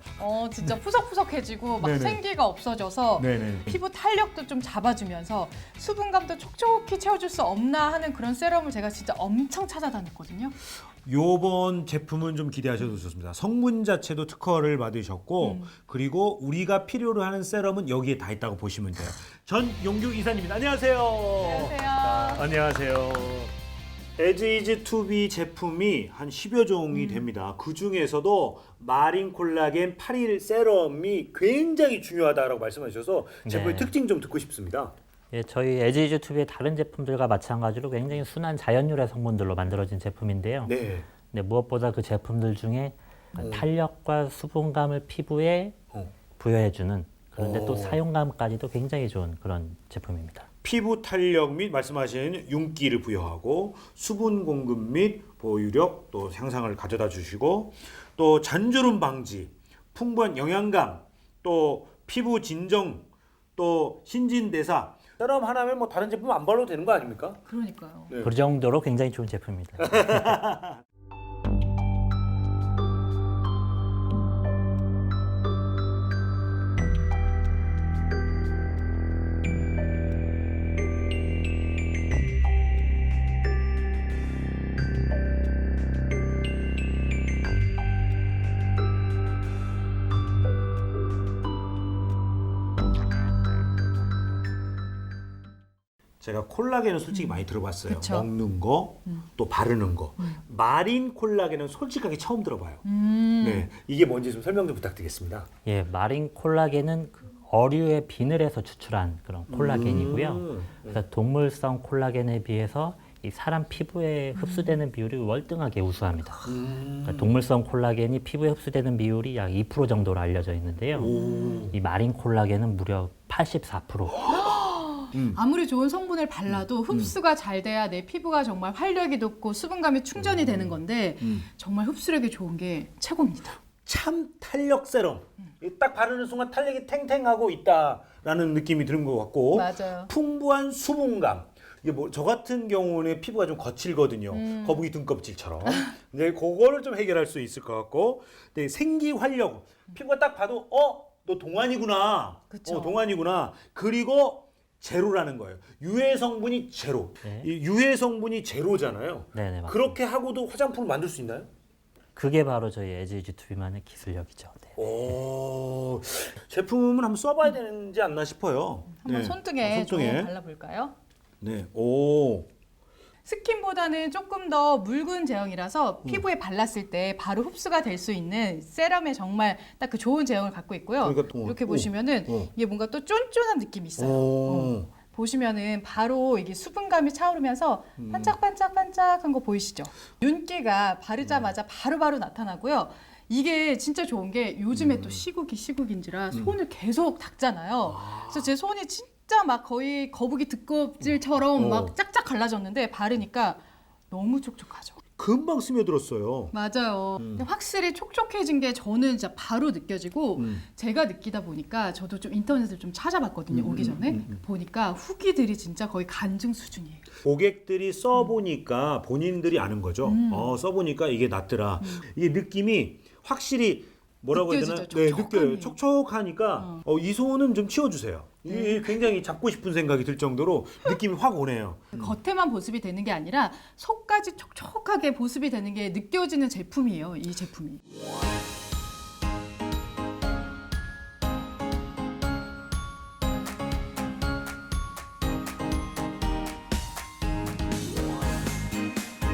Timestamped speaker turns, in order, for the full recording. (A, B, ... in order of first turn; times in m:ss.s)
0:00.2-0:10.5 A
0:01.8-0:02.2 B
0:03.2-0:03.8 B
0:11.0-0:23.5 B
0:15.4-0:15.7 A
0:21.4-0:22.4 A
0:24.2-0:34.9 B
0:26.9-0:27.2 A
0:33.4-0:33.9 C
0:35.3-0:40.8 C
0:40.7-0:41.1 B
0:41.3-0:45.8 C
0:43.4-0:43.7 B
0:46.4-0:50.5 C
0:47.4-0:48.0 B
0:50.6-1:07.4 B
1:07.4-1:08.1 A
1:08.2-1:10.4 C
1:09.8-1:10.8 B
1:36.2-1:42.8 B
1:37.1-1:38.3 A
1:42.8-1:43.7 A
1:43.4-1:45.5 B
1:45.6-1:56.5 C
1:49.5-1:51.0 B
1:56.5-1:57.4 B
1:57.0-2:01.1 C
2:01.0-2:01.8 B
2:01.1-2:01.6 A
2:01.7-2:04.2 C
2:04.3-2:13.6 A
2:06.5-2:07.1 B
2:10.2-2:11.4 B
2:13.8-2:41.5 B
2:19.5-2:20.1 A
2:24.3-2:24.9 A
2:25.7-2:25.9 A
2:32.5-2:33.0 A
2:37.2-2:37.5 C
2:39.3-2:40.0 C
2:42.1-2:44.8 C
2:44.8-2:50.3 B
2:49.0-2:50.9 A
2:51.4-2:52.5 B
2:53.2-3:25.0 A
3:01.0-3:02.5 B
3:04.0-3:04.9 B
3:08.0-3:08.3 B
3:14.7-3:15.2 B
3:17.9-3:18.5 B
3:21.6-3:21.9 B
3:25.2-3:26.5 B
3:26.5-3:37.1 A
3:27.2-3:27.4 B
3:30.4-3:30.6 B
3:33.5-3:34.4 B
3:37.2-3:52.1 B
3:40.0-3:40.6 A
3:44.3-3:45.8 A
3:46.6-3:46.8 A
3:48.5-3:48.8 A
3:51.9-3:57.8 A